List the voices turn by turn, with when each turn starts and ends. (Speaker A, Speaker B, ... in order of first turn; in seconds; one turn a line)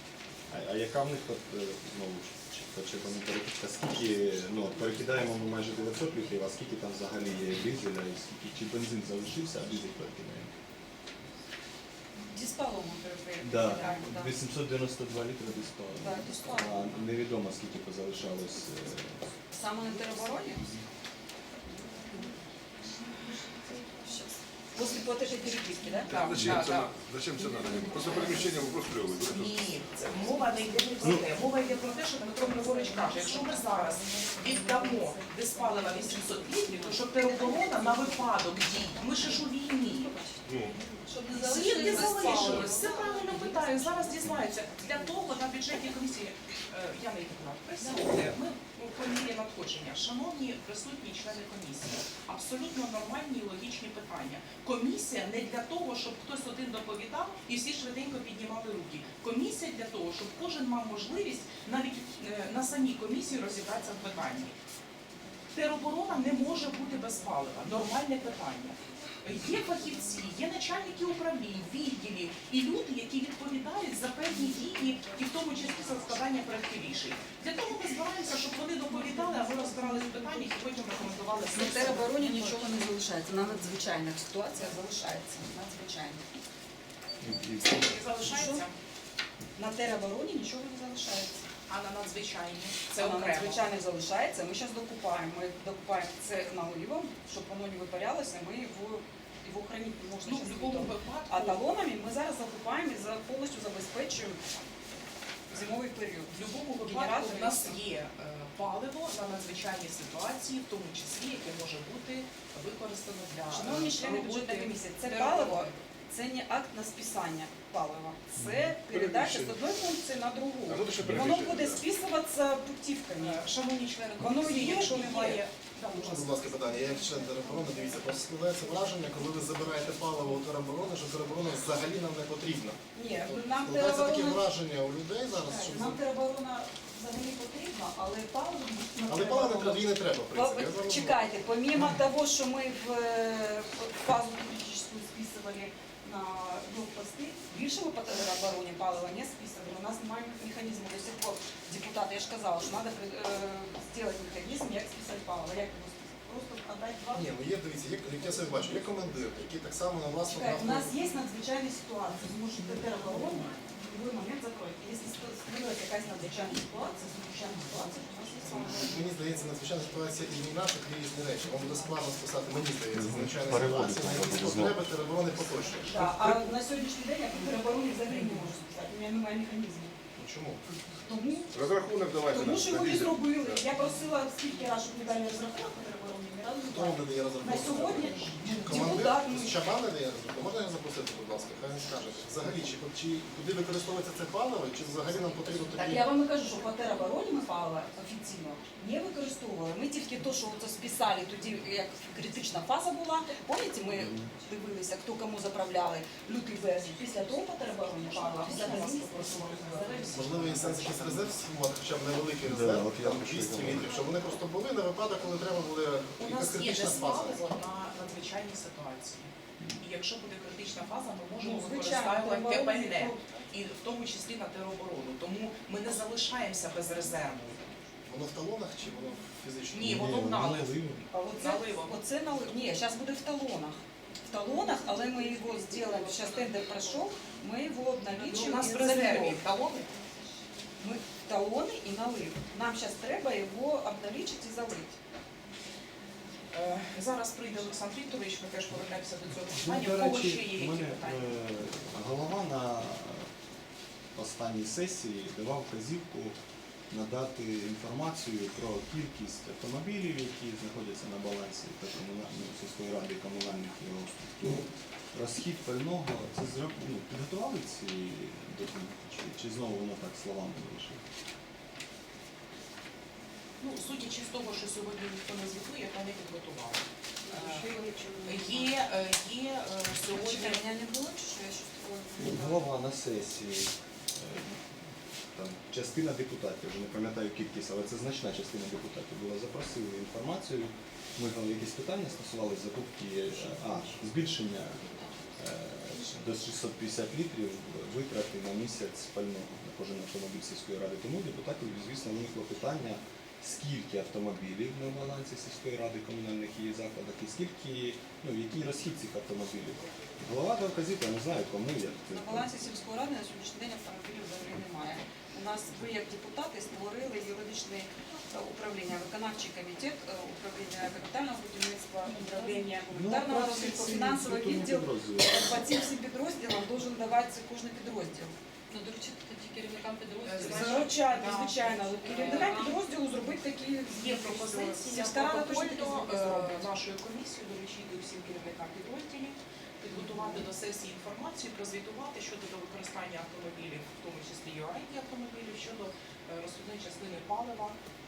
Speaker A: 0.5-10.5
Speaker B: 12.3-14.3
Speaker A: 13.4-19.2
Speaker B: 16.0-17.1
Speaker B: 19.5-20.6
Speaker A: 20.2-20.9
Speaker B: 21.8-22.3
Speaker B: 23.8-26.2
Speaker C: 26.1-29.8
Speaker D: 26.1-26.9
Speaker D: 29.2-40.1
Speaker A: 31.0-31.3
Speaker E: 34.4-35.1
Speaker B: 35.0-38.3
Speaker B: 39.9-45.2
Speaker C: 40.5-40.8
Speaker E: 41.1-44.1
Speaker D: 41.4-64.6
Speaker B: 47.8-48.1
Speaker D: 65.5-82.5
Speaker B: 81.5-86.2
Speaker A: 87.2-88.0
Speaker D: 87.8-88.8
Speaker B: 88.2-88.7
Speaker B: 89.6-91.4
Speaker D: 91.7-93.6
Speaker B: 93.0-104.6
Speaker D: 100.2-101.6
Speaker B: 105.5-107.8
Speaker D: 106.3-115.8
Speaker B: 113.5-123.5
Speaker A: 118.4-118.8
Speaker C: 118.9-119.7
Speaker C: 120.7-121.8
Speaker D: 123.2-126.2
Speaker B: 124.2-126.3
Speaker F: 125.9-136.0
Speaker B: 132.9-134.4
Speaker B: 135.5-157.2
Speaker F: 139.1-141.4
Speaker F: 157.1-160.9
Speaker B: 160.3-168.9
Speaker F: 168.5-176.2
Speaker A: 172.9-174.8
Speaker B: 175.8-180.0
Speaker A: 176.2-176.5
Speaker F: 180.2-180.6
Speaker B: 181.1-181.5
Speaker C: 181.5-183.6
Speaker B: 182.3-189.6
Speaker F: 186.7-196.1
Speaker B: 195.7-210.2
Speaker A: 204.0-204.3
Speaker D: 208.0-211.3
Speaker F: 210.1-217.6
Speaker A: 212.4-213.9
Speaker D: 216.2-227.5
Speaker B: 221.4-223.4
Speaker F: 228.1-230.3
Speaker D: 229.7-230.8
Speaker A: 229.8-231.1
Speaker B: 231.1-239.4
Speaker D: 231.3-232.0
Speaker D: 234.6-236.8
Speaker D: 238.2-239.9
Speaker B: 240.8-245.0
Speaker D: 246.5-251.3
Speaker A: 249.5-253.3
Speaker A: 254.2-256.4
Speaker A: 256.9-271.0
Speaker D: 273.6-277.7
Speaker B: 277.2-278.8
Speaker D: 278.3-280.6
Speaker B: 280.1-282.7
Speaker A: 282.2-294.8
Speaker A: 295.4-312.5
Speaker B: 312.1-328.4
Speaker A: 322.9-325.7
Speaker E: 328.7-330.6
Speaker D: 330.2-332.8
Speaker B: 330.4-336.6
Speaker D: 333.9-347.8